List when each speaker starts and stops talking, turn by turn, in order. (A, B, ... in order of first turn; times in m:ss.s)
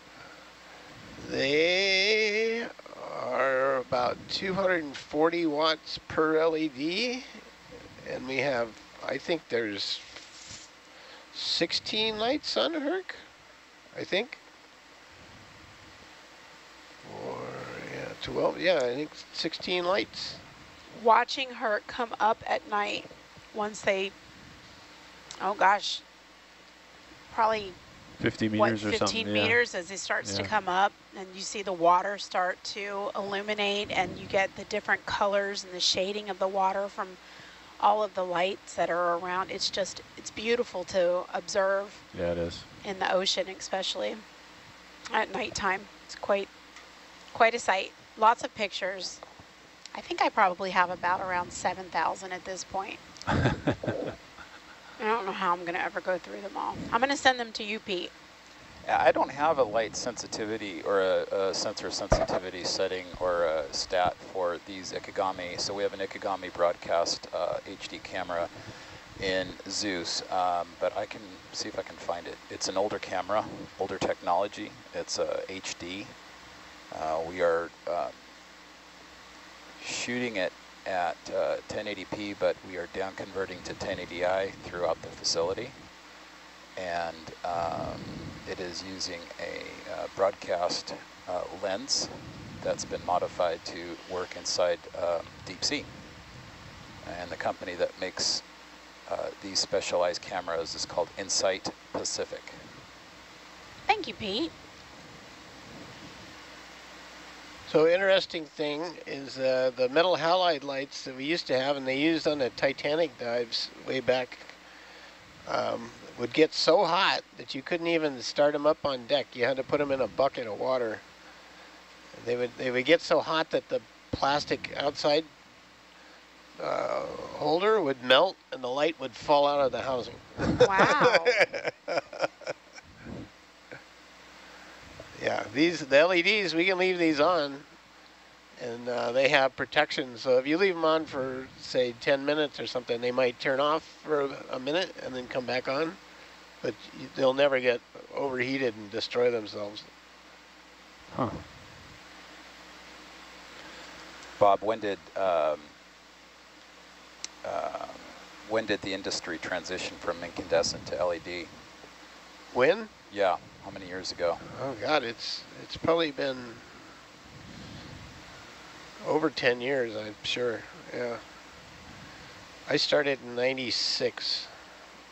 0:01.2-0:07.5 A
0:08.0-0:10.7 A
0:11.3-0:13.2 A
0:13.9-0:14.4 A
0:17.0-0:20.4 A
0:20.9-0:24.1 B
0:25.4-0:26.0 B
0:27.3-0:27.8 B
0:28.2-0:29.6 C
0:28.6-0:37.2 B
0:30.2-0:30.5 C
0:37.8-0:42.1 B
0:42.1-0:42.7 C
0:42.8-0:44.2 B
0:45.1-0:46.5 B
0:47.3-0:49.2 B
0:49.9-0:53.0 B
0:55.0-0:58.1 B
0:58.8-1:16.2 D
1:16.9-1:18.2 D
1:19.8-1:26.0 D
1:26.8-1:36.1 D
1:37.0-1:38.5 D
1:39.1-1:42.7 D
1:43.9-1:44.5 B
1:47.7-1:54.6 A
1:55.4-2:01.0 A
2:02.2-2:05.3 A
2:06.6-2:12.2 A
2:10.6-2:11.4 B
2:15.2-2:17.7 A
2:18.6-2:26.0 A
2:26.6-2:29.9 A
2:31.1-2:31.5 C
2:34.4-2:35.7 D
2:37.4-2:41.6 D
2:42.5-2:42.9 A
2:43.1-2:44.4 D
2:44.4-2:46.8 A
2:49.0-2:51.2 A
2:52.7-2:54.5 A